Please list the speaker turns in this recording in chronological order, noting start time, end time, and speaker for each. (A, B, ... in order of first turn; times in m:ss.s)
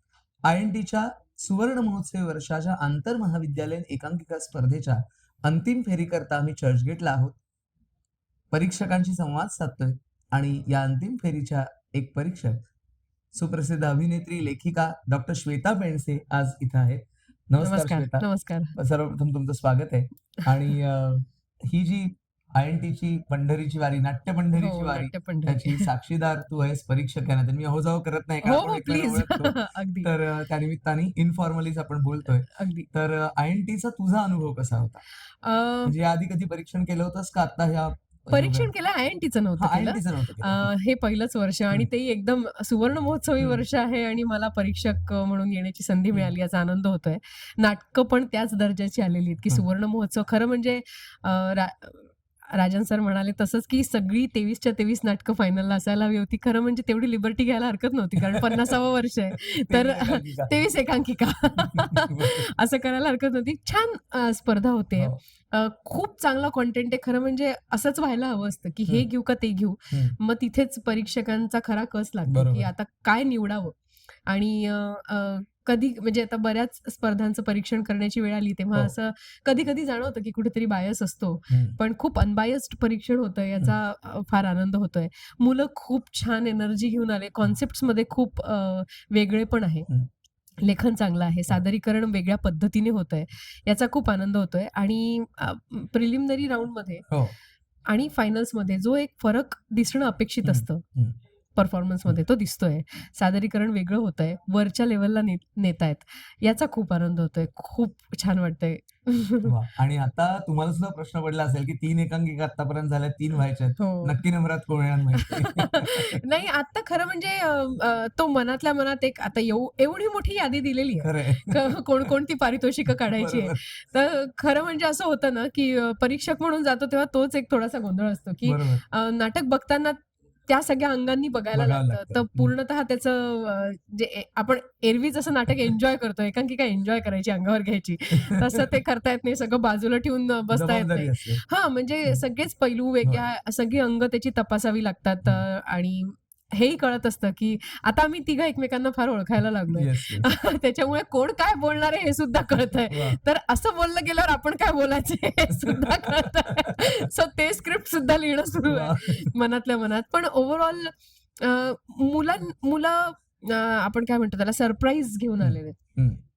0:00.5-0:07.4 A
0:08.5-0:12.6 A
0:13.3-0:35.0 A
0:17.6-0:18.8 B
0:24.5-0:25.9 B
0:28.4-0:30.1 B
0:32.4-0:32.9 B
0:35.4-0:36.0 B
0:35.9-0:38.7 A
0:38.3-1:13.8 B
0:39.6-0:40.7 A
0:58.2-0:58.6 A
0:59.7-1:00.7 A
1:01.6-1:02.5 A
1:12.3-1:12.7 A
1:14.3-1:29.9 B
1:21.5-1:21.8 A
1:30.6-1:37.1 B
1:37.1-1:37.4 A
1:37.9-1:40.8 B
1:40.4-1:41.2 A
1:41.6-1:49.5 B
1:49.4-1:56.2 A
1:53.8-1:54.2 B
1:55.2-2:45.8 B
2:01.0-2:01.8 A
2:03.1-2:03.6 A
2:08.4-2:08.8 A
2:11.5-2:12.5 A
2:20.5-2:21.4 A
2:29.7-2:30.3 A
2:32.9-2:33.2 A
2:35.5-2:36.9 A
2:38.7-2:39.3 A
2:45.4-2:46.2 A